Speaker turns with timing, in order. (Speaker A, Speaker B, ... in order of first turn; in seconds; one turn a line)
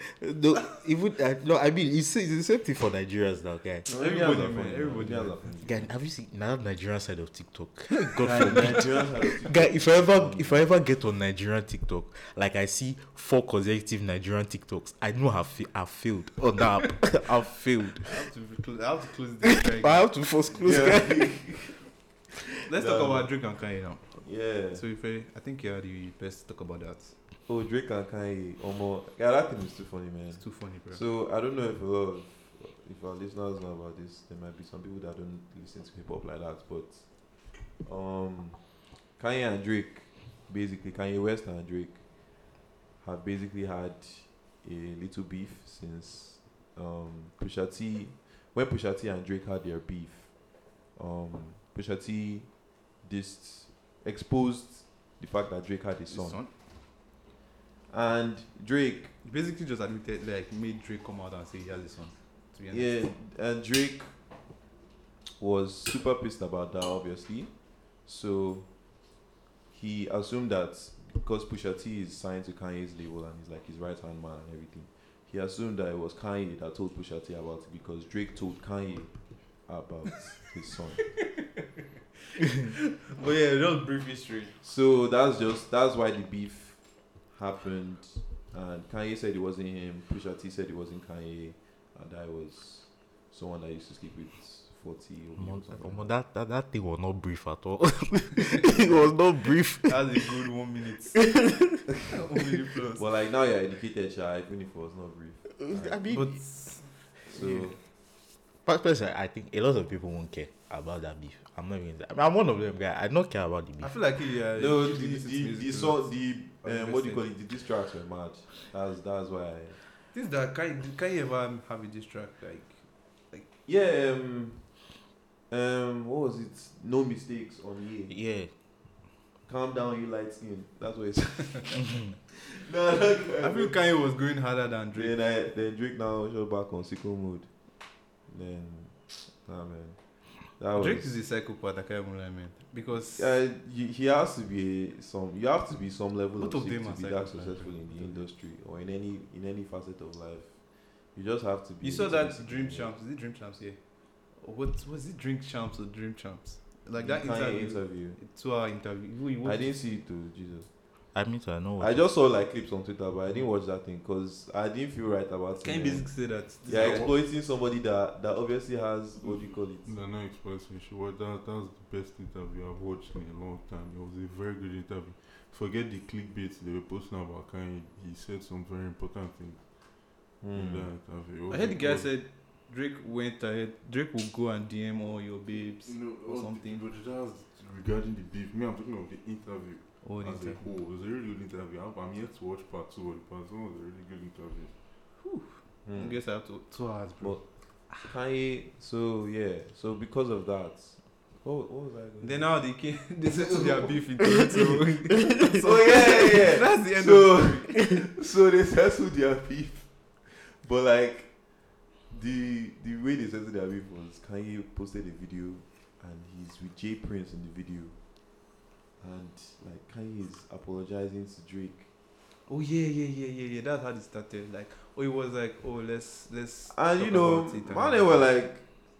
Speaker A: 0.2-3.9
Speaker B: 3.9-5.5
Speaker C: 3.9-5.9
Speaker A: 5.6-18.2
Speaker C: 8.2-10.7
Speaker B: 18.0-20.1
Speaker A: 19.4-21.6
Speaker C: 20.6-21.8
Speaker B: 22.7-27.1
Speaker C: 22.8-23.3
Speaker C: 24.2-24.8
Speaker C: 27.5-38.6
Speaker B: 30.4-31.0
Speaker C: 39.2-42.0
Speaker C: 43.0-56.4
Speaker B: 56.1-56.5
Speaker C: 57.9-59.1
Speaker B: 59.2-62.9
Speaker C: 62.7-64.1
Speaker C: 65.4-68.7
Speaker C: 69.7-81.2
Speaker B: 82.4-84.6
Speaker C: 84.6-96.1
Speaker A: 95.4-100.3
Speaker B: 99.8-101.2
Speaker A: 101.1-101.8
Speaker B: 102.0-103.0
Speaker C: 103.0-106.0
Speaker A: 105.6-106.5
Speaker B: 106.1-107.7
Speaker C: 107.3-107.8
Speaker A: 108.6-113.9
Speaker B: 113.8-117.2
Speaker C: 114.5-119.8
Speaker B: 120.1-123.5
Speaker C: 123.7-124.8
Speaker C: 125.5-128.1
Speaker A: 128.1-128.5
Speaker C: 129.5-133.8
Speaker B: 133.4-135.1
Speaker C: 134.9-137.5
Speaker C: 138.2-141.1
Speaker B: 140.7-143.3
Speaker C: 143.1-150.6
Speaker B: 146.4-148.2
Speaker C: 151.1-152.9
Speaker B: 151.8-159.8
Speaker C: 157.0-158.2
Speaker C: 159.4-160.7
Speaker A: 161.1-162.1
Speaker C: 161.8-169.9
Speaker B: 165.6-167.1
Speaker D: 166.7-167.1
Speaker D: 169.4-182.1
Speaker C: 180.4-180.9
Speaker B: 181.5-186.8
Speaker D: 185.8-194.7
Speaker B: 190.0-190.6
Speaker B: 195.2-197.4
Speaker C: 195.8-196.2
Speaker C: 197.2-202.5
Speaker B: 202.2-207.7
Speaker C: 203.3-204.0
Speaker C: 205.4-211.3
Speaker C: 212.1-217.9
Speaker C: 219.0-221.9
Speaker B: 222.5-228.2
Speaker C: 226.7-228.6